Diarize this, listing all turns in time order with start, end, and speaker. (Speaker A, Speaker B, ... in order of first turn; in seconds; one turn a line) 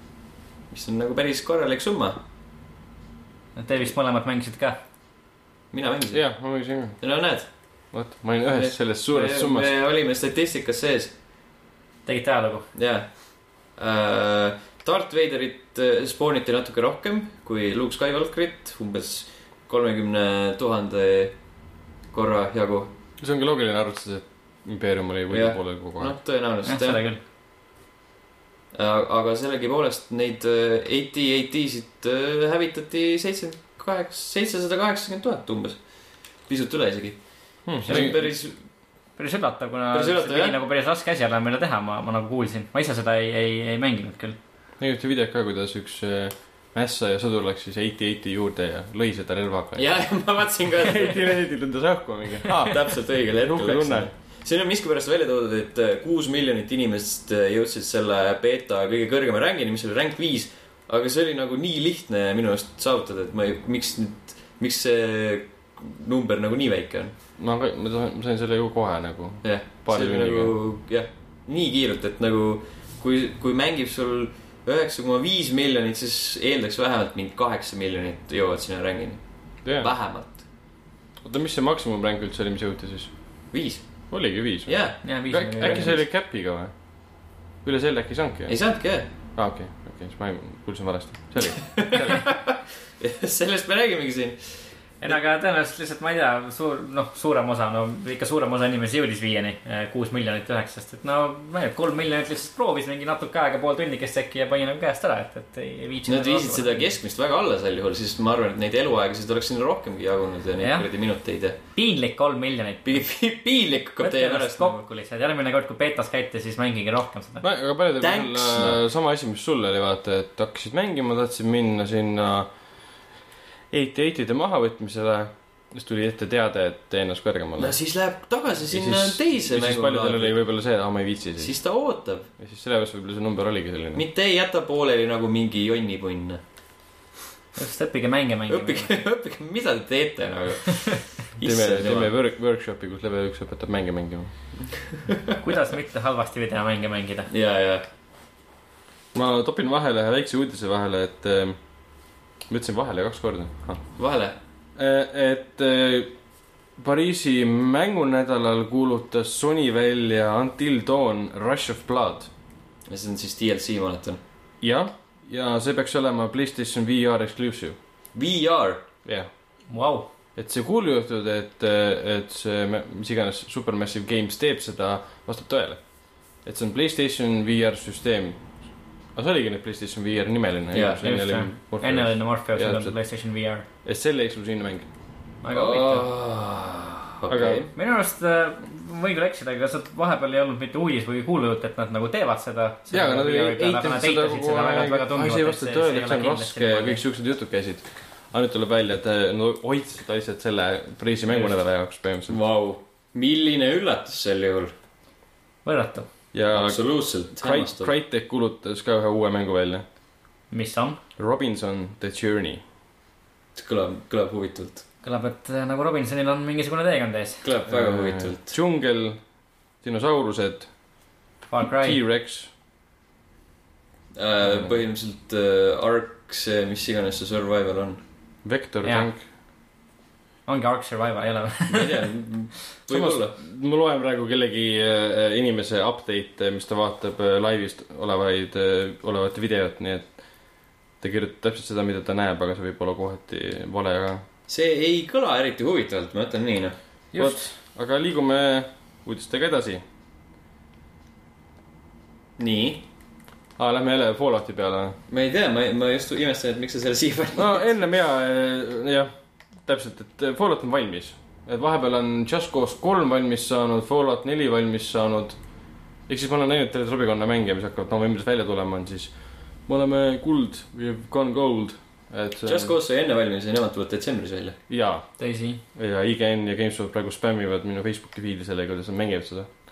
Speaker A: 0.7-2.2
Speaker B: 3.6-4.8
Speaker A: 5.7-6.3
Speaker C: 6.1-7.0
Speaker A: 7.0-7.5
Speaker C: 7.9-9.7
Speaker A: 8.5-11.1
Speaker B: 12.1-12.7
Speaker A: 12.7-21.4
Speaker A: 22.1-22.9
Speaker C: 23.2-26.2
Speaker A: 25.3-27.1
Speaker B: 26.6-27.2
Speaker A: 28.7-38.6
Speaker C: 37.6-38.1
Speaker B: 37.9-38.4
Speaker B: 39.2-44.4
Speaker A: 39.9-40.6
Speaker C: 44.8-49.9
Speaker A: 49.8-51.4
Speaker C: 50.8-54.1
Speaker A: 52.5-67.1
Speaker C: 67.4-70.5
Speaker A: 69.4-80.5
Speaker C: 79.6-79.9
Speaker C: 81.2-83.1
Speaker A: 83.5-84.1
Speaker C: 84.1-86.7
Speaker A: 84.7-85.0
Speaker B: 85.0-86.0
Speaker A: 85.6-85.9
Speaker C: 87.6-88.6
Speaker A: 88.5-89.1
Speaker C: 89.3-92.3
Speaker A: 91.4-95.2
Speaker B: 95.0-106.8
Speaker A: 106.1-111.6
Speaker B: 110.6-110.9
Speaker B: 111.7-113.0
Speaker A: 112.8-114.8
Speaker B: 114.0-117.4
Speaker C: 117.4-122.5
Speaker A: 118.0-118.8
Speaker C: 123.7-127.8
Speaker A: 127.6-130.3
Speaker C: 128.7-131.6
Speaker A: 131.4-132.3
Speaker C: 132.4-134.0
Speaker A: 133.9-136.4
Speaker B: 137.6-139.0
Speaker A: 138.5-142.1
Speaker C: 141.4-144.3
Speaker A: 144.8-145.4
Speaker B: 145.4-147.3
Speaker A: 147.3-147.8
Speaker C: 149.1-151.6
Speaker C: 152.5-153.8
Speaker A: 153.9-154.3
Speaker C: 154.8-156.1
Speaker C: 156.8-162.3
Speaker A: 162.9-164.2
Speaker C: 164.6-167.8
Speaker A: 168.1-168.8
Speaker B: 169.7-170.1
Speaker C: 170.4-178.5
Speaker C: 179.1-182.9
Speaker A: 180.7-181.0
Speaker B: 181.0-183.6
Speaker C: 183.8-184.9
Speaker B: 185.4-186.1
Speaker A: 185.5-187.7
Speaker C: 187.3-187.7
Speaker B: 187.7-197.0
Speaker C: 192.9-202.4
Speaker A: 202.3-204.7
Speaker B: 205.6-206.1
Speaker C: 206.3-209.8
Speaker A: 206.5-207.9
Speaker B: 210.5-211.0
Speaker C: 211.2-212.6
Speaker A: 213.6-214.8
Speaker B: 215.0-217.4
Speaker A: 217.4-218.6
Speaker C: 217.7-219.2
Speaker C: 219.8-220.7
Speaker B: 221.5-222.0
Speaker C: 221.7-222.5
Speaker A: 224.1-228.0
Speaker C: 224.4-224.7
Speaker C: 228.4-229.2
Speaker B: 230.5-232.1
Speaker A: 231.7-233.3
Speaker C: 232.9-240.1
Speaker C: 241.0-244.2
Speaker A: 244.5-246.7
Speaker B: 247.1-247.5
Speaker C: 247.2-249.8
Speaker A: 252.4-252.8
Speaker C: 253.6-255.0
Speaker A: 255.1-257.6
Speaker C: 257.3-259.1
Speaker C: 259.6-265.4
Speaker C: 266.1-269.1
Speaker C: 269.7-272.7
Speaker A: 272.4-274.6
Speaker C: 274.7-275.1
Speaker B: 275.2-275.6
Speaker C: 275.7-279.5